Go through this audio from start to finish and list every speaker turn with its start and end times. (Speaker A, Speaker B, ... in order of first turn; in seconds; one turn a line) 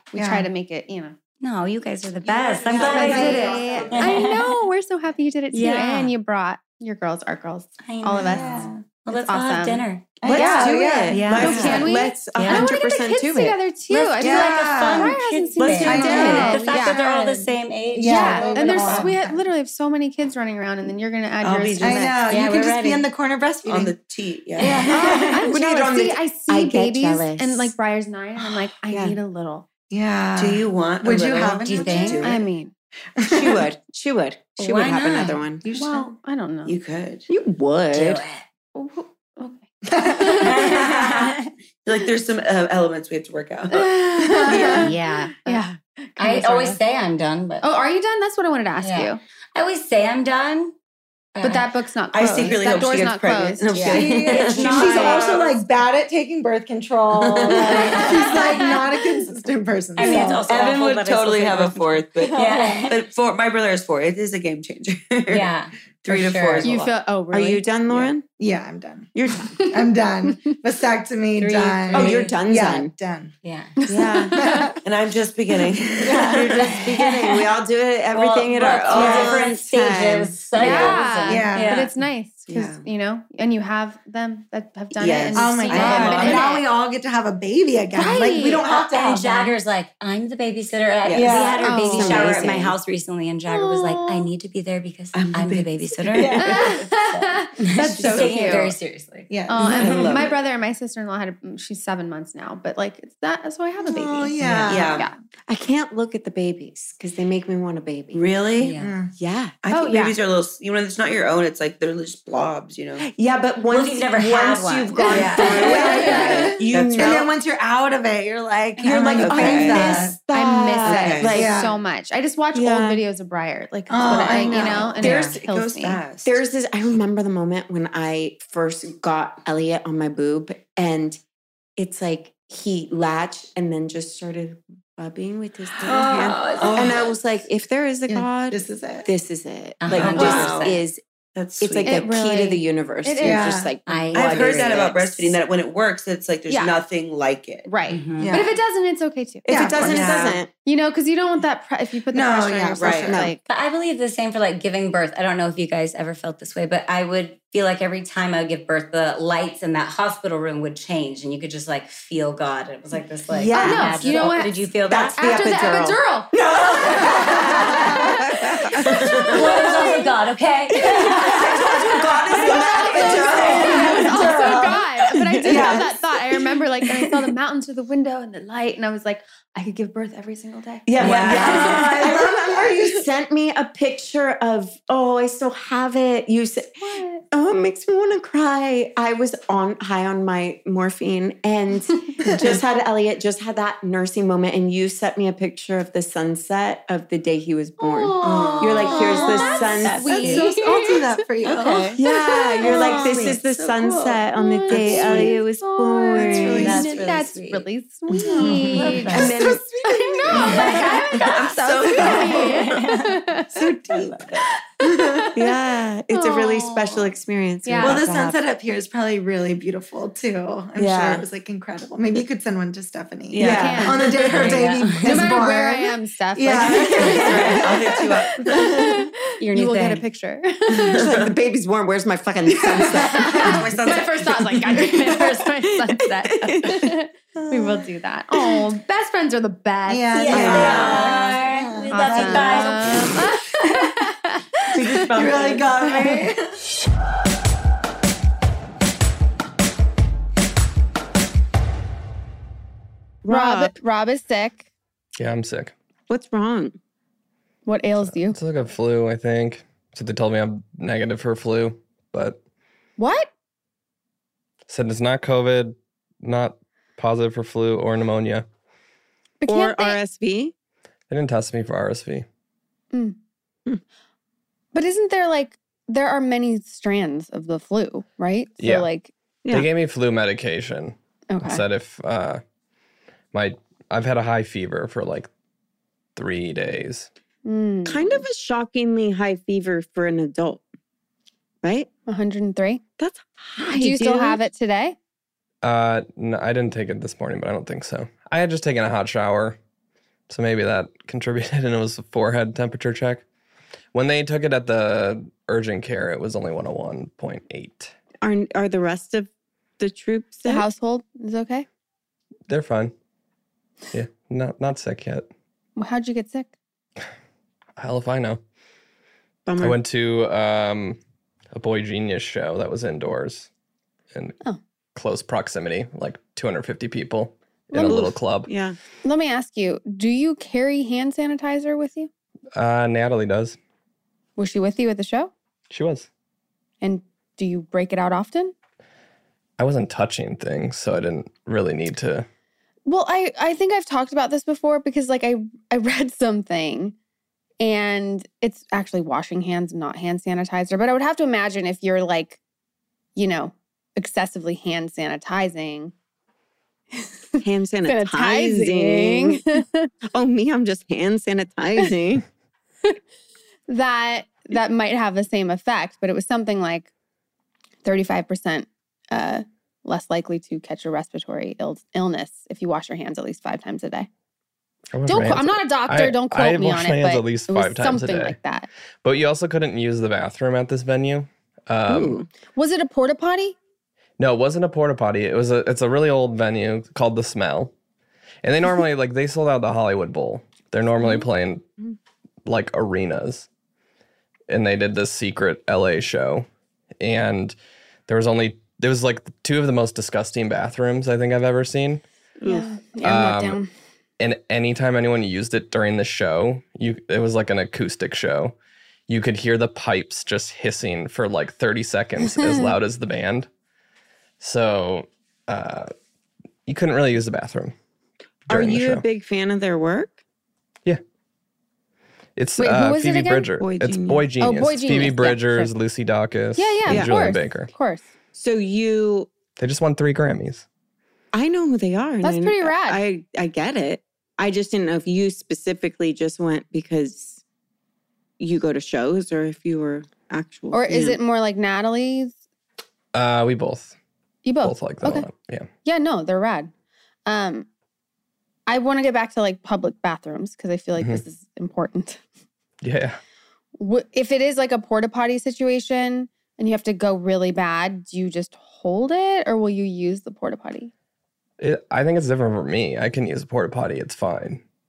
Speaker A: 0.1-1.1
Speaker B: 0.1-0.5
Speaker C: 1.4-4.6
Speaker B: 2.2-4.3
Speaker D: 2.6-4.0
Speaker A: 2.8-10.7
Speaker C: 5.5-6.1
Speaker C: 7.8-10.1
Speaker B: 8.2-8.8
Speaker B: 10.2-11.8
Speaker E: 10.2-13.6
Speaker C: 11.1-12.7
Speaker D: 11.3-11.9
Speaker A: 11.4-17.4
Speaker C: 13.9-19.1
Speaker B: 14.2-15.2
Speaker D: 15.6-16.4
Speaker B: 15.8-17.0
Speaker E: 16.0-16.3
Speaker B: 17.9-19.4
Speaker A: 18.0-22.2
Speaker D: 21.4-22.3
Speaker B: 21.8-24.0
Speaker C: 22.3-23.0
Speaker D: 23.6-25.1
Speaker B: 24.6-25.3
Speaker C: 24.6-25.5
Speaker A: 24.9-29.7
Speaker E: 25.5-27.7
Speaker E: 28.9-29.2
Speaker B: 29.9-32.3
Speaker D: 30.4-32.4
Speaker C: 31.6-32.3
Speaker A: 32.2-32.7
Speaker B: 33.2-33.6
Speaker E: 33.3-35.6
Speaker C: 34.6-35.4
Speaker B: 35.6-36.1
Speaker A: 35.7-36.8
Speaker D: 36.6-37.3
Speaker E: 37.3-38.2
Speaker C: 37.9-38.4
Speaker A: 38.7-40.9
Speaker B: 39.9-40.8
Speaker C: 40.4-41.5
Speaker D: 40.7-43.9
Speaker A: 43.7-46.8
Speaker B: 44.2-44.9
Speaker D: 44.5-44.9
Speaker C: 44.6-45.6
Speaker C: 46.2-47.6
Speaker A: 47.6-49.2
Speaker C: 48.8-50.7
Speaker C: 51.3-51.7
Speaker A: 51.4-54.0
Speaker D: 52.1-55.6
Speaker C: 53.7-55.4
Speaker B: 53.8-60.5
Speaker D: 57.1-58.2
Speaker C: 57.7-58.2
Speaker A: 57.7-59.2
Speaker C: 60.0-63.0
Speaker A: 60.0-60.4
Speaker D: 60.0-65.5
Speaker B: 62.2-62.9
Speaker C: 65.3-66.7
Speaker D: 66.0-67.0
Speaker A: 66.6-68.0
Speaker E: 67.3-68.3
Speaker B: 68.3-73.3
Speaker E: 69.2-69.5
Speaker A: 69.6-70.5
Speaker C: 71.4-72.4
Speaker E: 71.9-72.9
Speaker C: 73.4-73.7
Speaker A: 73.8-74.7
Speaker E: 73.9-74.4
Speaker B: 74.3-74.8
Speaker D: 74.8-76.7
Speaker B: 76.0-76.6
Speaker C: 76.3-77.4
Speaker E: 76.6-81.0
Speaker C: 78.1-81.9
Speaker D: 78.9-79.5
Speaker A: 80.6-86.7
Speaker D: 80.6-81.0
Speaker B: 81.3-81.8
Speaker D: 82.5-82.8
Speaker D: 85.0-86.5
Speaker B: 85.3-89.5
Speaker C: 85.8-86.5
Speaker A: 87.9-88.7
Speaker C: 88.6-99.3
Speaker D: 91.0-91.4
Speaker B: 91.2-91.9
Speaker A: 91.6-92.3
Speaker E: 91.9-92.8
Speaker A: 93.5-94.3
Speaker D: 95.1-96.9
Speaker B: 96.1-96.7
Speaker A: 96.4-98.7
Speaker D: 98.0-98.5
Speaker B: 99.3-100.2
Speaker A: 99.5-105.2
Speaker D: 99.7-100.4
Speaker B: 103.8-105.0
Speaker C: 104.4-104.7
Speaker D: 104.7-105.1
Speaker E: 105.5-108.3
Speaker D: 108.1-108.8
Speaker C: 108.6-108.9
Speaker B: 108.8-109.1
Speaker E: 109.2-109.5
Speaker D: 109.6-113.0
Speaker A: 109.7-110.1
Speaker E: 113.0-117.2
Speaker C: 113.7-116.1
Speaker A: 115.0-116.5
Speaker D: 115.1-117.3
Speaker B: 115.5-120.2
Speaker D: 118.9-120.0
Speaker E: 118.9-121.7
Speaker C: 118.9-119.7
Speaker A: 120.1-126.0
Speaker D: 120.8-121.4
Speaker B: 121.3-121.7
Speaker E: 122.5-123.0
Speaker B: 123.9-125.1
Speaker D: 124.1-126.4
Speaker C: 125.0-125.3
Speaker E: 126.2-131.2
Speaker E: 131.8-141.0
Speaker C: 135.8-137.0
Speaker D: 136.5-137.1
Speaker B: 138.1-139.1
Speaker C: 139.8-140.8
Speaker D: 139.9-140.7
Speaker D: 141.3-141.9
Speaker E: 141.6-145.3
Speaker A: 141.8-143.5
Speaker B: 143.2-143.7
Speaker C: 143.9-145.0
Speaker D: 144.1-147.7
Speaker A: 146.5-146.8
Speaker A: 147.7-149.5
Speaker C: 147.9-148.3
Speaker B: 148.2-148.6
Speaker B: 149.4-150.2
Speaker E: 149.5-150.5
Speaker D: 149.7-150.4
Speaker A: 150.6-153.4
Speaker B: 152.1-153.3
Speaker D: 152.8-153.1
Speaker C: 153.5-165.4
Speaker E: 163.3-169.5
Speaker A: 163.5-164.6
Speaker A: 165.2-166.3
Speaker B: 166.8-168.2
Speaker A: 169.0-170.1
Speaker C: 169.3-172.6
Speaker E: 170.9-173.9
Speaker D: 171.6-173.8
Speaker A: 172.3-181.4
Speaker B: 172.5-174.9
Speaker C: 173.2-174.7
Speaker B: 175.4-175.9
Speaker D: 180.9-182.0
Speaker E: 180.9-200.3
Speaker C: 181.0-182.1
Speaker B: 181.0-183.0
Speaker A: 186.8-187.2
Speaker A: 191.9-192.2
Speaker A: 197.8-203.1
Speaker B: 198.2-202.0
Speaker D: 198.3-198.9
Speaker C: 199.1-200.5
Speaker D: 201.4-201.9
Speaker E: 201.9-206.8
Speaker B: 202.6-204.2
Speaker A: 204.3-213.6
Speaker B: 204.7-205.3
Speaker B: 206.2-207.1
Speaker C: 206.4-207.7
Speaker B: 208.1-211.1
Speaker C: 208.4-209.3
Speaker E: 209.1-209.8
Speaker C: 210.4-211.6
Speaker D: 211.1-212.8
Speaker B: 212.0-212.5
Speaker C: 212.2-213.0
Speaker B: 213.5-215.3
Speaker D: 214.1-214.3
Speaker A: 214.8-215.5
Speaker E: 215.3-218.4
Speaker A: 216.1-217.1
Speaker A: 217.6-218.0
Speaker B: 217.8-227.7
Speaker D: 220.8-221.2
Speaker D: 223.3-224.6
Speaker E: 223.3-223.9
Speaker A: 223.4-224.2
Speaker C: 224.3-225.3
Speaker A: 225.0-231.0
Speaker D: 227.0-229.1
Speaker C: 227.2-227.7
Speaker C: 229.4-230.0
Speaker D: 230.9-231.3
Speaker E: 230.9-234.1
Speaker B: 232.5-233.8
Speaker A: 233.1-240.9
Speaker D: 233.4-234.6
Speaker B: 234.7-235.3
Speaker E: 236.3-236.8
Speaker B: 239.9-243.2
Speaker C: 240.1-243.2
Speaker E: 240.3-241.0
Speaker D: 240.3-241.1
Speaker A: 241.9-245.0
Speaker E: 244.8-245.6
Speaker B: 245.0-246.5
Speaker D: 245.1-245.6
Speaker E: 253.2-253.8
Speaker A: 253.3-254.7
Speaker F: 255.2-255.7
Speaker E: 256.1-256.8
Speaker A: 257.6-258.4
Speaker F: 258.0-262.4
Speaker A: 263.0-263.3
Speaker F: 264.7-268.4
Speaker A: 269.4-270.0
Speaker E: 269.4-270.5
Speaker F: 271.1-272.2
Speaker A: 272.9-273.2
Speaker A: 274.7-279.1
Speaker F: 278.6-278.9
Speaker F: 279.5-282.4
Speaker A: 281.3-281.6
Speaker F: 283.3-285.3
Speaker F: 286.1-287.1
Speaker A: 287.4-288.2
Speaker E: 287.8-290.6
Speaker E: 291.6-291.9
Speaker A: 292.1-292.8
Speaker E: 293.0-294.4
Speaker A: 293.6-295.0
Speaker F: 295.6-299.6
Speaker F: 300.3-303.2
Speaker F: 303.9-307.9
Speaker E: 308.2-310.7
Speaker A: 310.4-311.6
Speaker F: 312.5-312.9
Speaker F: 313.9-315.3
Speaker A: 315.8-316.5
Speaker F: 317.8-318.4
Speaker E: 319.4-319.8
Speaker F: 319.6-321.0
Speaker F: 321.5-323.5
Speaker F: 324.9-328.5
Speaker A: 327.7-328.0
Speaker E: 327.9-328.8
Speaker A: 329.0-332.1
Speaker F: 332.6-333.6
Speaker A: 334.4-335.3
Speaker F: 335.7-336.1
Speaker A: 336.8-338.5
Speaker F: 339.6-342.3
Speaker A: 342.9-346.9
Speaker A: 347.6-352.4
Speaker A: 353.1-355.9
Speaker A: 356.9-359.9
Speaker E: 357.4-359.4
Speaker E: 360.1-362.2
Speaker A: 363.7-366.9
Speaker A: 367.8-374.1
Speaker F: 374.9-378.4
Speaker A: 375.1-378.7
Speaker F: 379.0-382.2
Speaker E: 381.9-382.3
Speaker A: 382.5-383.6
Speaker F: 384.2-387.7
Speaker F: 388.4-391.6
Speaker F: 392.4-393.5
Speaker F: 394.5-396.5
Speaker F: 397.0-397.6
Speaker F: 398.1-402.0
Speaker A: 402.4-403.7
Speaker F: 403.0-403.6
Speaker F: 404.2-408.6
Speaker F: 409.1-413.5
Speaker A: 412.4-412.7
Speaker F: 414.4-415.9
Speaker F: 416.6-417.7
Speaker F: 418.5-419.0
Speaker E: 418.5-420.2
Speaker F: 422.4-427.7
Speaker A: 422.6-423.5
Speaker E: 423.6-424.3
Speaker A: 424.4-425.7
Speaker A: 426.6-428.1
Speaker E: 428.3-429.3
Speaker F: 429.6-430.6
Speaker E: 431.3-437.4
Speaker A: 432.2-433.0
Speaker E: 438.4-441.2
Speaker A: 440.7-442.4
Speaker F: 443.1-443.9
Speaker A: 444.4-445.3
Speaker F: 444.6-445.7
Speaker A: 445.8-446.7
Speaker A: 447.2-447.7
Speaker A: 448.7-452.2
Speaker F: 452.8-453.2
Speaker A: 453.8-460.9
Speaker F: 461.6-464.6